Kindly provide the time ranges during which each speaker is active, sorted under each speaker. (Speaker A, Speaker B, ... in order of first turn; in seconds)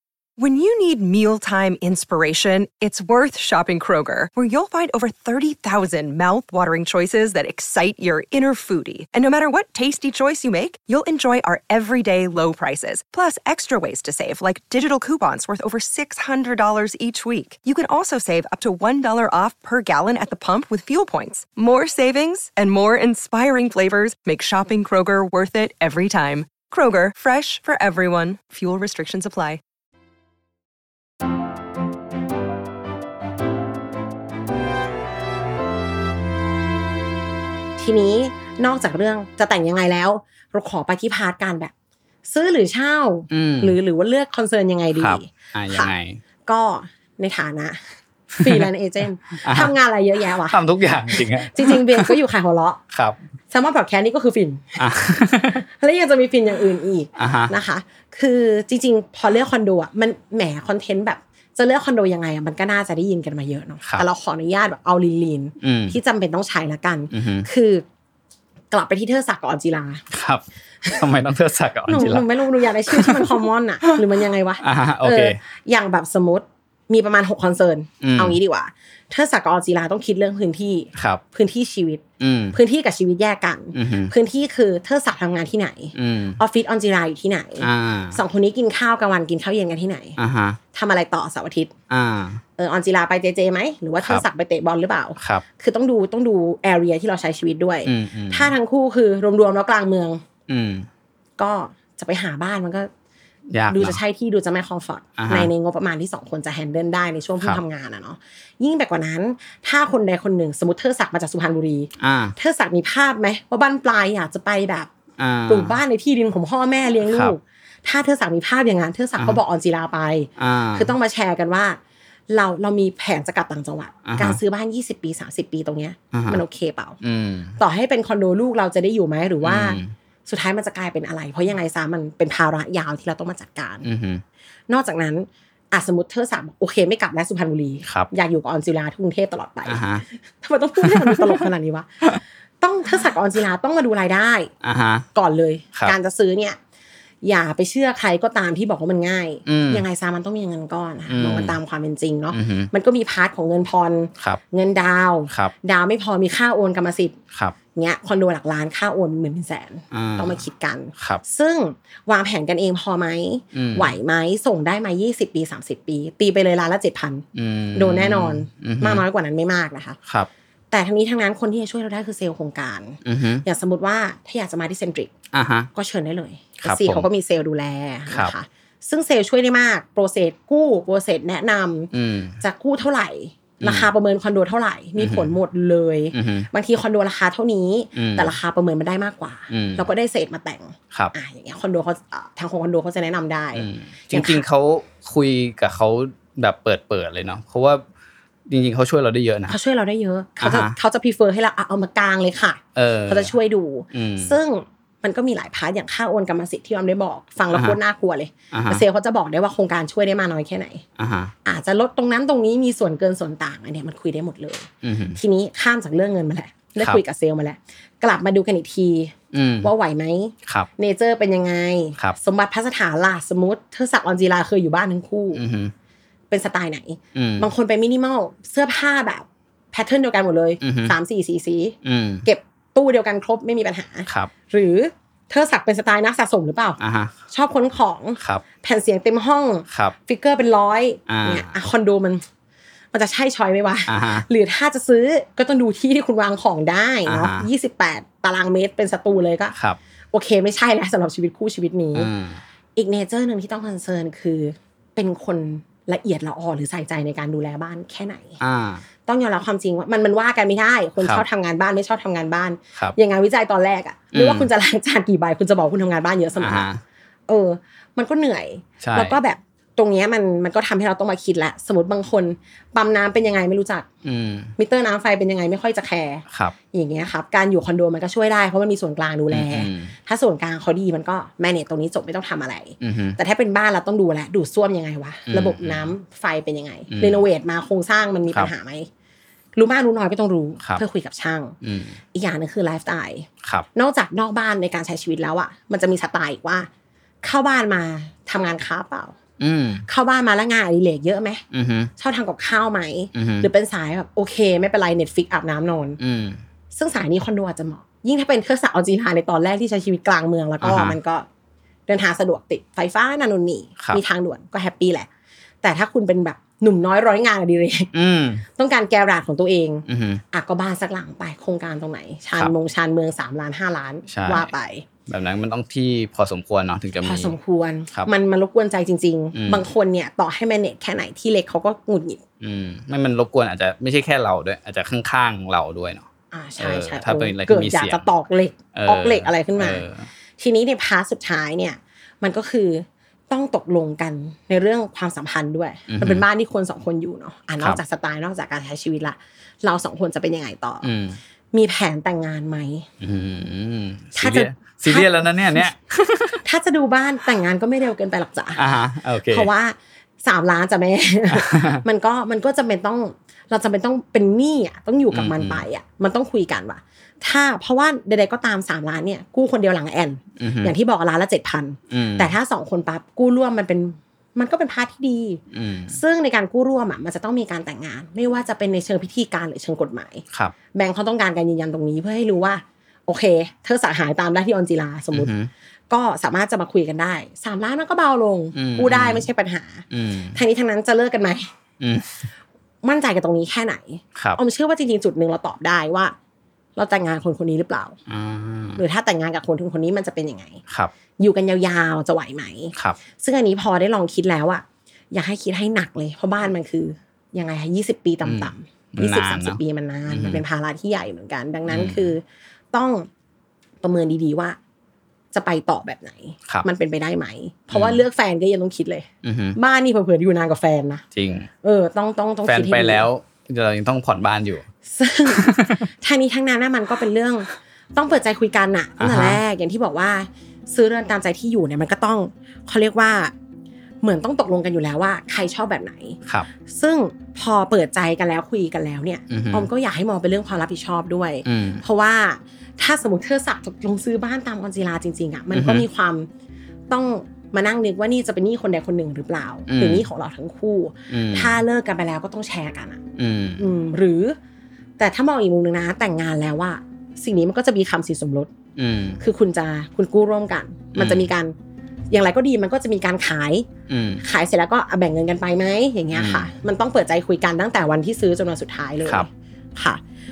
Speaker A: 0.4-29.6
Speaker B: 37.8-41.7, 42.2-45.9, 46.5-47.8, 48.3-50.6, 51.1-52.8, 53.5-67.8, 68.7-70.0, 71.9-90.2, 90.7-91.7, 92.6-100.2, 101.4-102.9, 103.7-114.9, 115.5-121.8, 122.3-127.0, 127.6-133.9, 134.7-144.5, 145.2-146.6, 147.2-157.2, 157.8-170.0, 170.7-175.1, 175.8-181.9, 182.4-194.4, 199.5-210.8, 211.4-225.4, 226.3-236.8, 237.3-242.2, 242.9-249.6, 250.1-252.1, 252.8-258.4, 259.1-266.7, 267.3-273.9, 274.6-288.9, 289.6-291.6, 292.1-296.7, 297.2-299.1, 299.9-301.4, 302.0-306.0, 306.7-311.3, 311.9-315.1, 315.6-317.9, 318.5-324.9, 327.0-332.2, 336.3-339.9, 340.4-350.9, 351.5-352.9, 354.2-355.6, 356.4-358.6, 359.3-385.3, 385.9-391.5, 392.8-396.1, 396.8-398.0, 398.8-400.6, 401.2-412.2, 412.7-413.1, 413.8-414.6, 415.3-421.0, 421.6-423.1, 424.9-433.3, 434.0-446.3, 446.9-453.0, 453.6-454.4, 455.0-458.5, 459.2-461.6, 462.1-463.7, 464.2-470.0
Speaker C: 43.3-43.8, 45.0-46.2, 48.4-48.7, 49.4-49.7, 50.5-52.2, 52.9-53.2, 54.8-55.6, 57.2-57.5, 65.6-66.0, 67.1-67.5, 70.1-72.3, 72.9-74.0, 74.6-75.4, 78.0-78.4, 81.0-81.2, 82.2-82.6, 83.7-84.1, 86.0-86.4, 87.6-88.2, 90.2-90.6, 91.9-92.4, 95.2-95.4, 97.8-98.5, 100.5-100.9, 103.5-104.0, 105.2-105.5, 112.0-112.3, 115.2-115.8, 120.4-120.9, 124.1-124.4, 126.1-126.4, 127.0-127.6, 129.4-129.9, 133.8-134.2, 139.7-140.0, 140.9-141.3, 144.6-145.1, 149.5-149.8, 151.1-151.6, 152.3-152.7, 159.9-160.4, 163.6-163.9, 167.3-169.1, 173.1-173.4, 175.3-175.7, 176.6-177.1, 181.9-182.4, 183.6-183.9, 185.0-185.3, 186.1-186.5, 188.0-188.3, 189.5-189.9, 193.6-197.8, 198.5-199.6, 200.4-200.7, 202.8-203.3, 203.9-204.4, 208.5-208.8, 211.0-211.3, 214.8-215.2, 219.3-219.7, 225.3-225.7, 227.2-227.5, 230.6-230.9, 231.8-232.2, 236.8-237.2, 241.1-241.5, 243.9-244.2, 247.1-247.5, 251.9-252.4, 258.4-258.8, 264.1-264.5, 266.4-266.8, 268.8-269.2, 274.1-274.5, 279.3-279.9, 282.8-283.2, 285.3-285.9, 286.9-287.2, 291.6-292.0, 299.4-299.9, 301.5-301.9, 303.1-303.5, 306.0-306.4, 310.6-311.0, 317.9-318.4, 319.9-320.2, 324.1-324.5, 325.1-327.3, 329.4-329.7, 332.4-336.1, 336.6-338.1, 338.8-340.1, 345.9-346.2, 350.8-351.2, 353.0-356.4, 358.6-359.5, 361.3-361.8, 365.1-365.6, 370.4-370.7, 371.9-372.3, 375.5-376.0, 385.1-385.5, 388.6-389.3, 389.9-390.4, 391.8-392.3, 398.1-398.8, 408.2-410.4, 411.7-412.1, 417.7-418.0, 419.2-419.6, 421.1-421.5, 422.5-424.7, 425.3-425.9, 429.0-429.4, 439.3-439.7, 441.4-441.8, 445.5-445.9, 449.7-450.1, 451.1-451.6, 453.2-453.6, 458.8-459.2, 460.9-461.3, 463.9-464.2, 466.1-466.5